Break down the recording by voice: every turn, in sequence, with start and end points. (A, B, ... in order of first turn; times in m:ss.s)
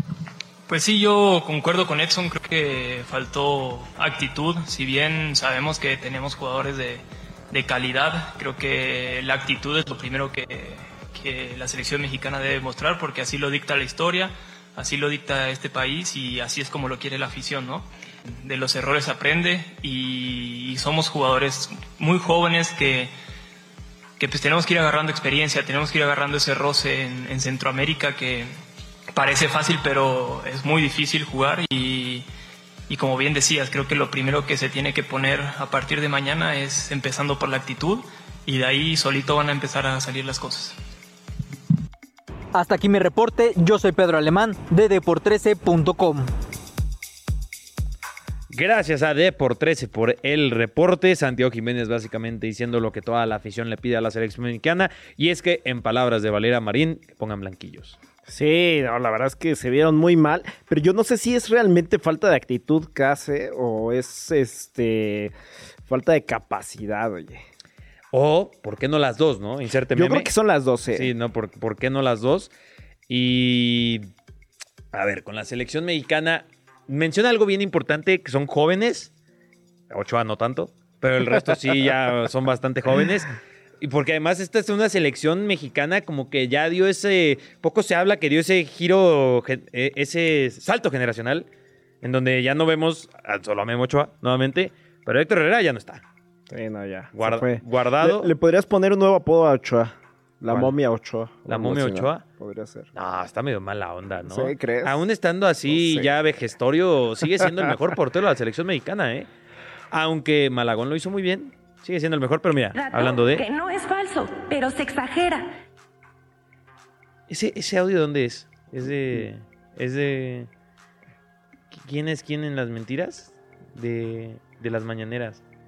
0:00.7-0:17.8 A
0:18.4-0:23.1 A
0:24.2-0:28.5 A
0:29.1-0:32.2 A
0:32.9-0:40.8 A
0:42.5-0:46.3 B
0:48.5-0:58.0 C
0:58.2-1:05.3 D
1:05.9-1:07.4 D
1:08.1-1:10.3 C
1:09.9-1:11.1 D
1:10.9-1:12.5 C
1:13.1-1:14.1 C
1:14.9-1:19.1 C
1:19.9-1:31.5 C
1:32.0-1:36.0 C
1:36.5-1:42.9 D
1:37.1-1:38.3 C
1:41.4-1:42.2 C
1:42.9-1:49.3 C
1:44.2-1:45.0 D
1:45.7-1:46.1 D
1:49.9-1:53.4 C
1:52.7-1:55.5 E
1:57.3-2:00.5 C
2:01.7-2:05.4 C